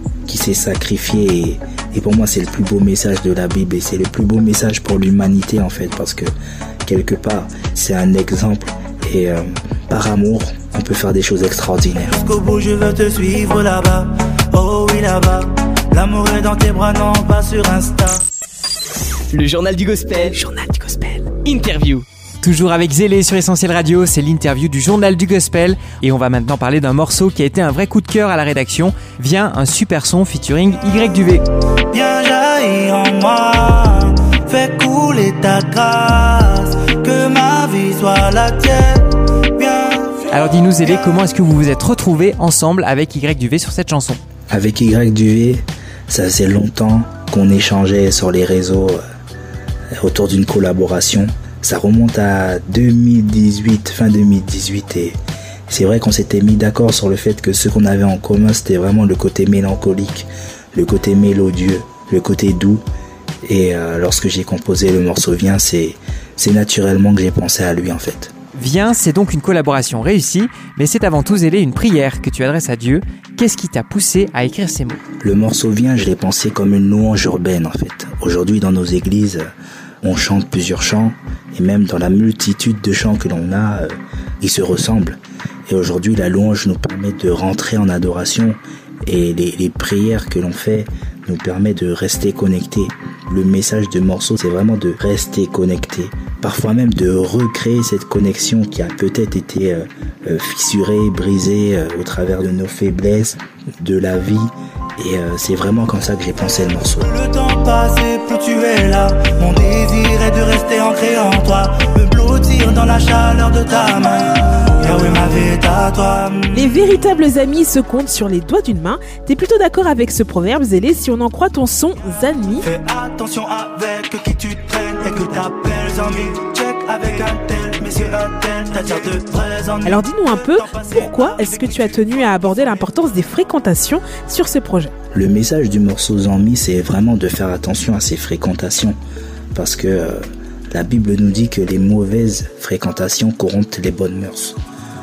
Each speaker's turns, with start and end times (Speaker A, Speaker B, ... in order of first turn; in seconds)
Speaker A: 0.3-6.3, 6.8-12.2, 44.5-49.0, 50.0-55.2, 55.7-62.8, 63.5-68.3, 75.2-79.5, 80.0-107.1, 135.1-139.0, 139.5-144.6
Speaker B: 12.0-18.2, 31.9-40.3, 107.0-116.7, 122.7-132.8
Speaker C: 19.3-22.1
Speaker D: 22.4-31.4, 40.3-44.2, 68.5-75.0
Speaker E: 116.5-122.7, 129.8-134.9